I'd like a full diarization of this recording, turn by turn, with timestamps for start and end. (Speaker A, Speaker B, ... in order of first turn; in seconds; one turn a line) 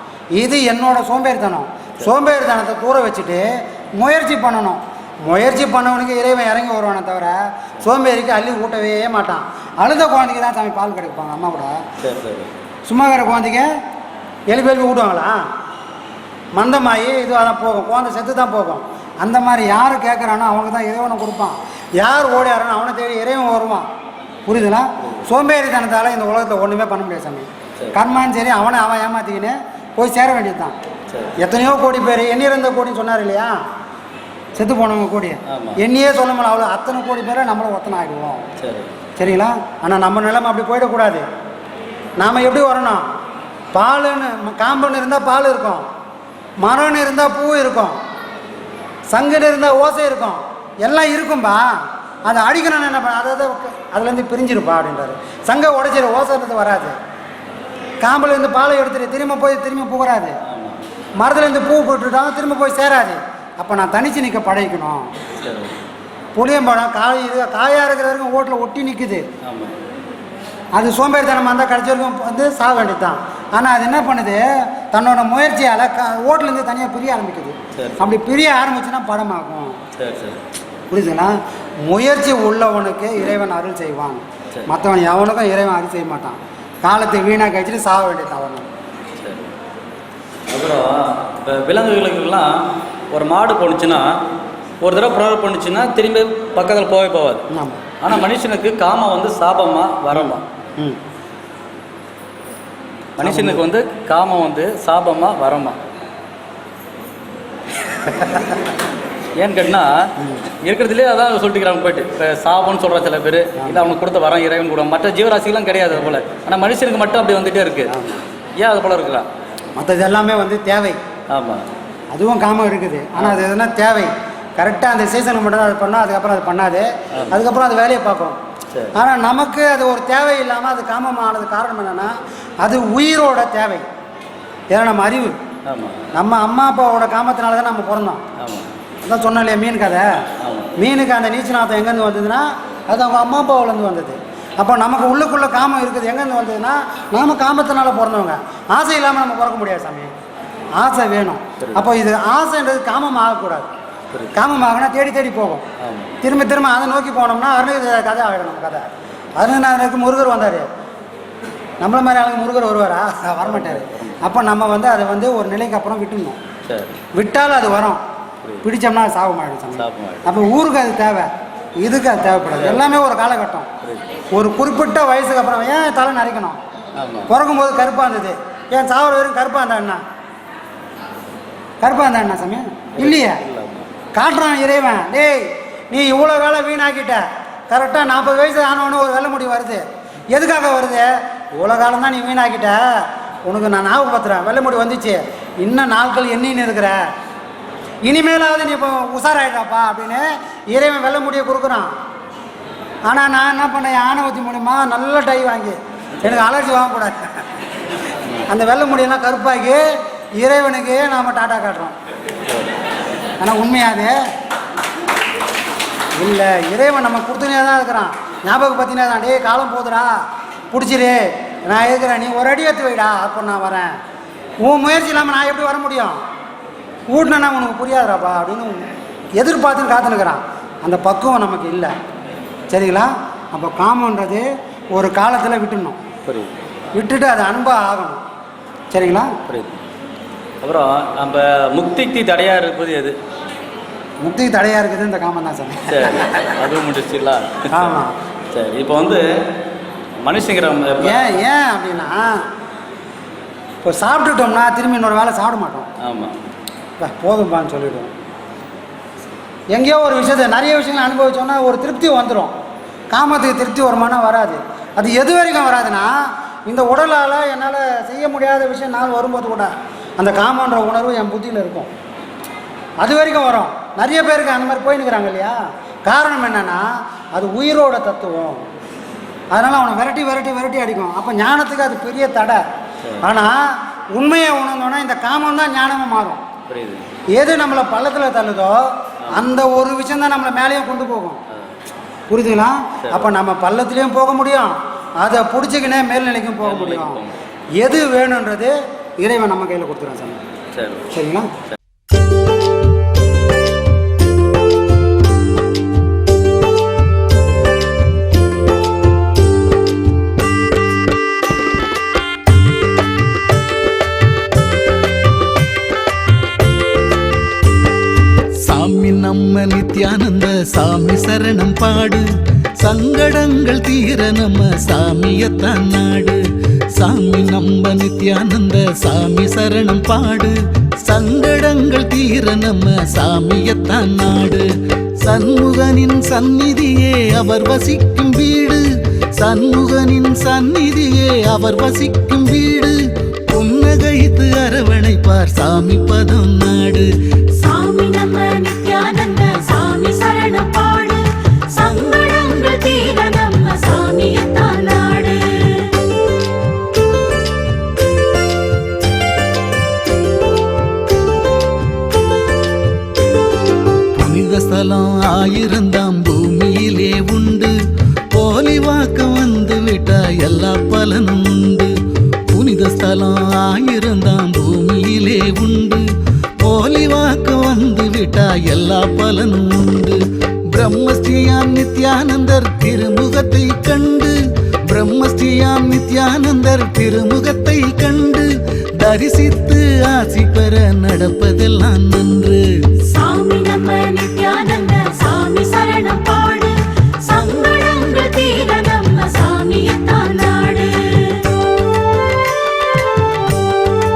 Speaker A: 0.3-11.8
Speaker B: 12.0-12.5
Speaker A: 12.8-13.7
Speaker A: 14.5-15.4
Speaker A: 16.5-23.9
Speaker A: 24.4-30.8
Speaker A: 31.4-33.6
Speaker A: 34.5-38.4
Speaker B: 38.6-38.9
Speaker A: 39.2-41.2
Speaker A: 42.2-43.0
Speaker A: 43.7-45.9
Speaker A: 46.6-48.0
Speaker A: 49.1-56.9
Speaker A: 58.0-60.3
Speaker B: 60.5-60.8
Speaker A: 61.2-65.1
Speaker B: 65.4-65.7
Speaker A: 66.3-69.2
Speaker B: 69.4-69.8
Speaker A: 70.7-79.8
Speaker B: 77.8-78.1
Speaker B: 80.0-80.4
Speaker A: 80.9-88.7
Speaker B: 89.2-89.5
Speaker B: 90.5-94.1
Speaker B: 94.8-97.4
Speaker A: 97.5-97.8
Speaker B: 98.0-100.4
Speaker A: 100.1-101.0
Speaker B: 103.2-105.8
Speaker A: 103.2-103.6
Speaker A: 108.1-108.4
Speaker B: 109.4-109.9
Speaker B: 110.6-117.9
Speaker A: 117.9-118.2
Speaker B: 118.6-119.3
Speaker A: 119.8-121.0
Speaker B: 121.3-121.6
Speaker A: 122.1-128.4
Speaker A: 128.9-133.8
Speaker A: 134.7-135.3
Speaker B: 135.7-136.0
Speaker A: 136.1-138.2
Speaker B: 138.4-138.7
Speaker A: 139.0-140.1
Speaker B: 140.4-140.7
Speaker A: 140.8-150.1
Speaker A: 150.8-153.7
Speaker B: 151.6-151.8
Speaker A: 154.3-155.6
Speaker B: 155.8-156.1
Speaker A: 156.2-160.7
Speaker A: 161.8-166.4
Speaker B: 163.4-164.2
Speaker B: 166.6-166.9
Speaker A: 167.1-168.0
Speaker A: 168.6-173.7
Speaker B: 169.7-170.2
Speaker B: 172.5-172.8
Speaker A: 174.3-176.6
Speaker B: 177.0-177.3
Speaker A: 177.3-180.0
Speaker A: 181.8-183.4
Speaker B: 182.9-183.9
Speaker A: 184.1-197.0
Speaker A: 198.0-201.9
Speaker A: 203.1-207.3
Speaker A: 208.5-209.8
Speaker A: 210.4-211.9
Speaker A: 213.4-214.1
Speaker A: 216.2-220.2
Speaker A: 220.7-223.9
Speaker A: 224.6-226.2
Speaker A: 227.1-228.8
Speaker A: 229.3-231.9
Speaker A: 232.7-236.0
Speaker B: 236.2-236.5
Speaker A: 236.9-238.2
Speaker A: 238.9-239.3
Speaker B: 239.5-239.8
Speaker B: 240.6-243.2
Speaker A: 244.2-246.4
Speaker B: 245.9-248.0
Speaker A: 247.7-248.1
Speaker B: 248.5-249.2
Speaker B: 250.2-251.4
Speaker A: 251.0-252.4
Speaker A: 253.8-255.9
Speaker B: 256.0-256.4
Speaker A: 257.0-258.1
Speaker A: 259.7-262.5
Speaker A: 263.1-266.1
Speaker A: 266.6-271.9
Speaker A: 273.0-278.6
Speaker A: 279.5-282.6
Speaker A: 283.2-286.4
Speaker B: 286.7-287.1
Speaker A: 287.3-291.4
Speaker B: 289.2-289.5
Speaker A: 292.3-297.2
Speaker B: 293.0-293.3
Speaker B: 296.6-297.3
Speaker A: 297.8-300.4
Speaker B: 300.7-301.1
Speaker A: 301.1-301.5
Speaker C: 318.6-347.1
Speaker D: 347.6-355.9
Speaker C: 364.1-367.8
Speaker C: 368.3-371.9
Speaker C: 372.5-376.1
Speaker C: 376.6-392.9
Speaker D: 393.1-401.4